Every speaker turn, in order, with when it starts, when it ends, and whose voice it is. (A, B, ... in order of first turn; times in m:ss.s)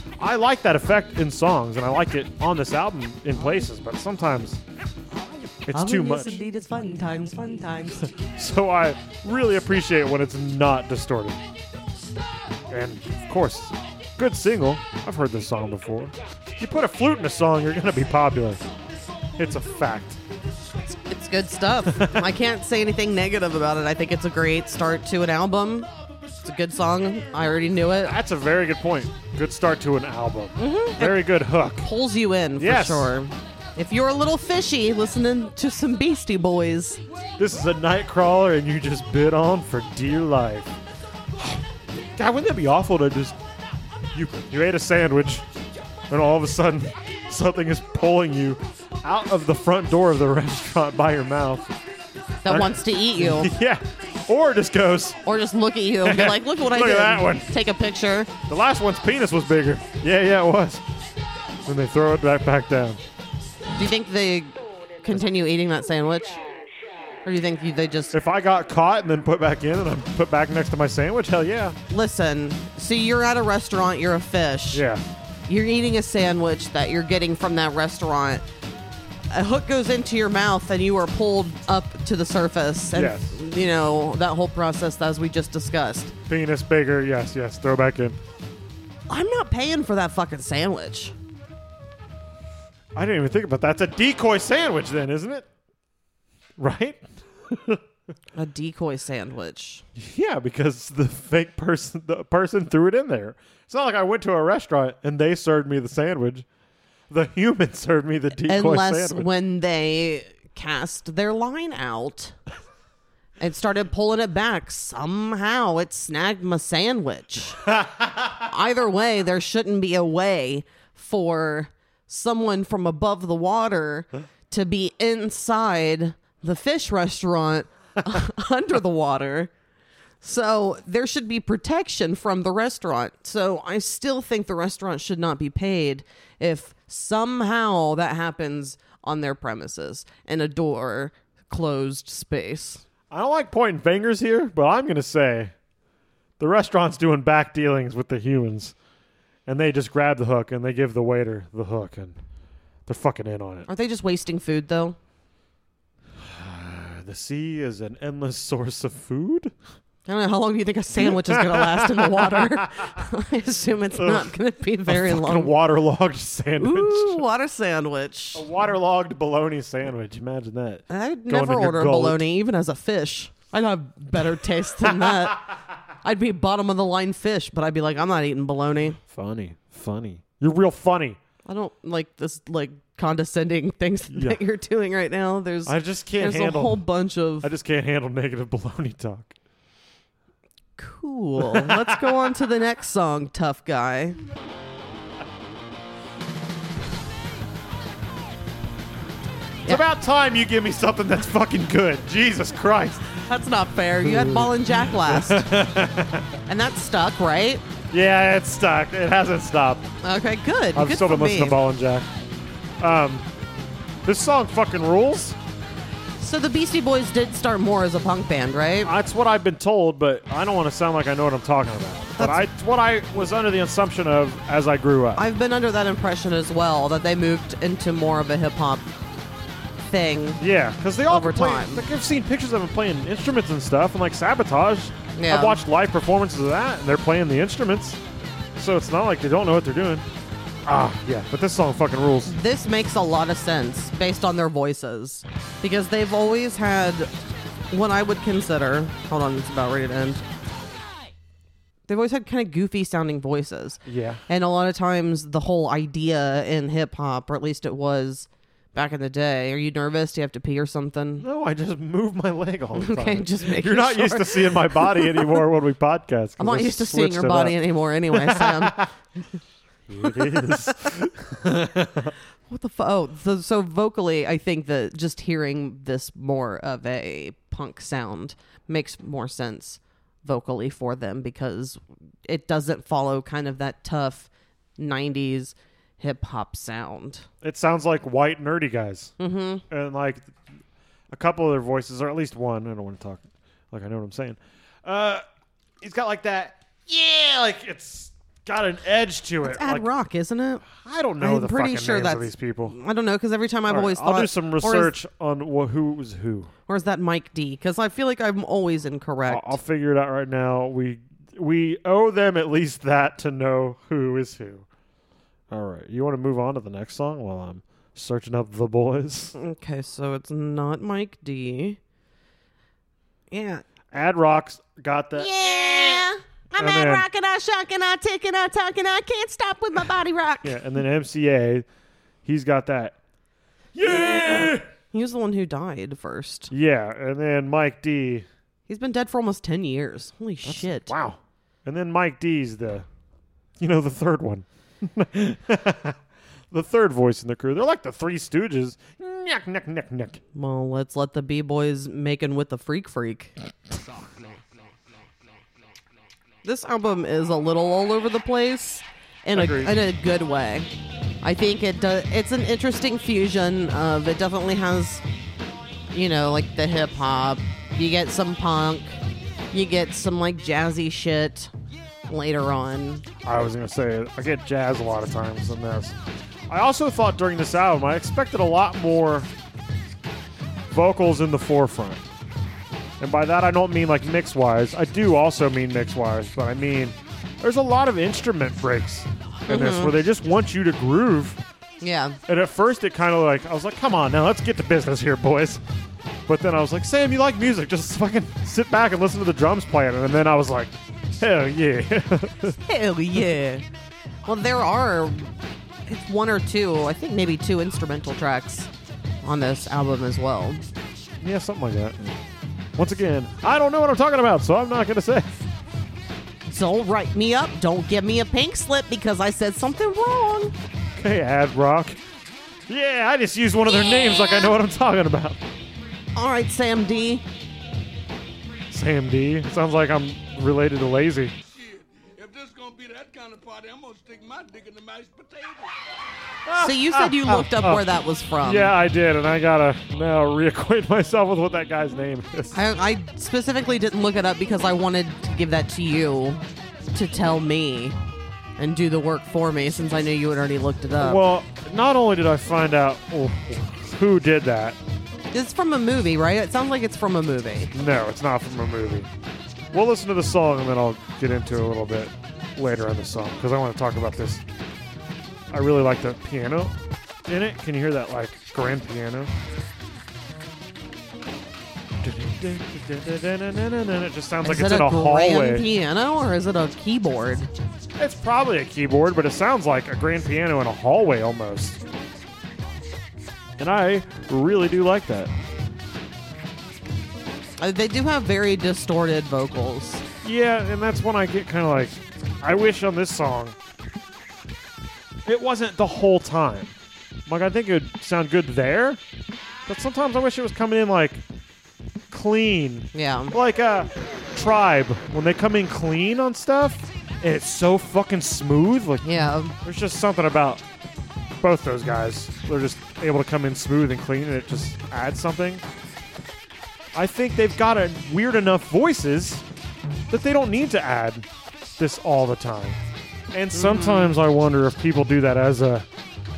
0:00.2-0:04.6 A
0:05.6-0:06.4 A
0:05.7-0:08.1 B
0:08.1-0:11.4 A
0:12.7-0:18.6 A
0:19.4-0:20.2 A
0:20.9-0:25.9 B
0:26.4-0:28.2 B
0:28.0-0:31.9 A
0:30.6-0:31.3 B
0:31.8-0:37.0 B
0:32.6-0:33.1 A
0:37.4-0:40.8 A
0:41.4-0:41.6 A
0:42.2-0:43.4 A
0:44.1-0:45.4 A
0:46.1-0:51.7 A
0:52.4-0:53.5 B
0:52.5-0:55.2 A
0:55.2-0:58.3 B
0:56.0-0:57.5 A
0:58.5-1:00.8 A
1:01.6-1:03.0 A
1:03.8-1:06.4 B
1:07.2-1:08.2 B
1:08.1-1:11.8 A
1:11.9-1:14.8 B
1:14.7-1:15.0 A
1:15.5-1:18.4 B
1:19.3-1:26.1 B
1:22.9-1:23.4 A
1:26.3-1:28.2 A
1:29.1-1:31.2 B
1:33.0-1:35.5 A
1:36.6-1:37.8 A
1:38.3-1:39.8 B
1:40.0-1:46.4 A
1:47.1-1:49.3 A
1:48.4-1:52.4 B
1:53.4-1:57.7 B
1:57.8-1:58.3 A
1:58.5-2:09.5 B
2:10.2-2:22.8 B
2:23.1-2:25.5 A
2:26.4-2:28.7 A
2:29.5-2:32.2 A
2:32.9-2:33.7 A
2:33.7-2:35.0 B
2:36.2-2:39.5 A
2:40.1-2:45.5 B
2:41.0-2:43.0 A
2:43.9-2:44.4 A
2:44.9-2:47.2 A
2:46.6-2:48.4 B
2:48.3-2:52.2 A
2:50.9-2:59.0 B
2:59.1-3:01.2 A
3:01.4-3:07.5 B
3:04.1-3:04.4 A
3:05.6-3:06.8 A
3:07.4-3:09.3 A
3:10.8-3:14.2 B
3:11.4-3:12.1 A
3:19.7-3:23.2 A
3:23.3-3:25.5 B
3:24.0-3:26.4 A
3:26.5-3:27.6 B
3:27.9-3:29.9 A
3:30.0-3:31.6 B
3:30.7-3:32.1 A
3:32.8-3:33.3 A
3:34.0-3:35.4 A
3:36.2-3:38.9 B
3:38.8-3:45.2 A
3:42.2-3:42.5 B
3:45.2-3:48.9 B
3:49.9-3:50.4 B
3:50.4-3:58.0 A
3:51.1-3:51.8 B
3:55.2-3:55.6 B
3:58.6-4:00.0 A
4:00.6-4:02.4 A
4:02.3-4:07.1 B
4:07.7-4:10.2 B
4:11.9-4:21.3 B
4:13.8-4:14.2 A
4:21.2-4:27.6 A
4:22.8-4:25.4 B
4:26.4-4:29.4 B
4:28.1-4:28.9 A
4:29.9-4:32.2 A
4:30.0-4:30.7 B
4:32.5-4:47.3 B
4:47.4-4:49.1 A
4:49.2-4:49.6 B
4:49.7-4:50.3 A
4:51.1-4:55.2 A
4:55.8-4:59.9 A
4:59.4-5:00.6 B
5:00.7-5:02.8 A
5:01.2-5:04.9 B
5:03.7-5:06.5 A
5:06.7-5:09.6 B
5:09.3-5:14.7 A
5:15.5-5:19.4 A
5:19.4-5:21.8 B
5:23.3-5:23.6 B
5:23.9-5:27.0 A
5:25.2-5:30.6 B
5:30.4-5:31.6 A
5:32.2-5:33.0 A
5:33.8-5:34.7 A
5:34.9-5:36.5 B
5:36.5-5:38.3 A
5:38.7-5:40.9 B
5:40.4-5:42.9 A
5:43.6-5:46.0 A
5:46.5-5:50.2 A
5:50.3-5:53.3 B
5:56.4-6:00.7 B
5:59.3-5:59.8 A
6:01.2-6:05.0 B
6:05.9-6:09.0 B
6:09.5-6:11.5 B
6:12.1-6:13.0 B
6:13.2-6:16.0 A
6:16.5-6:19.3 A
6:20.7-6:22.0 A
6:23.0-6:31.4 A
6:29.5-6:30.0 B
6:31.8-6:32.2 B
6:32.3-6:35.6 A
6:36.3-6:42.6 A
6:42.6-6:43.6 B
6:44.2-6:48.7 B
6:49.2-6:50.6 B
6:51.2-6:52.2 A
6:52.8-6:55.3 A
6:56.5-7:00.5 B
7:01.0-7:02.0 A
7:02.7-7:05.4 A
7:03.8-7:04.5 B
7:06.2-7:07.2 B
7:08.7-7:11.4 A
7:11.6-7:15.8 C
7:16.5-7:17.8 A
7:16.6-7:18.7 B
7:18.4-7:22.6 A
7:22.5-7:28.0 B
7:28.6-7:31.2 B
7:31.0-7:34.8 A
7:35.3-7:37.7 B
7:37.7-7:39.1 A
7:39.7-7:44.4 A
7:45.5-7:46.8 A
7:47.3-7:49.3 A
7:52.0-7:55.7 A
7:54.4-7:57.5 B
7:58.0-8:01.8 A
8:03.6-8:05.3 A
8:07.6-8:10.0 B
8:10.2-8:13.6 A
8:15.3-8:16.7 A
8:17.3-8:19.0 A
8:19.7-8:21.2 A
8:22.1-8:29.0 A
8:22.9-8:23.3 B
8:29.0-8:29.5 B
8:29.6-8:30.6 A
8:31.4-8:35.6 A
8:36.9-8:39.4 A
8:40.1-8:41.3 A
8:41.8-8:42.8 A
8:43.3-8:45.9 A
8:43.5-8:44.2 B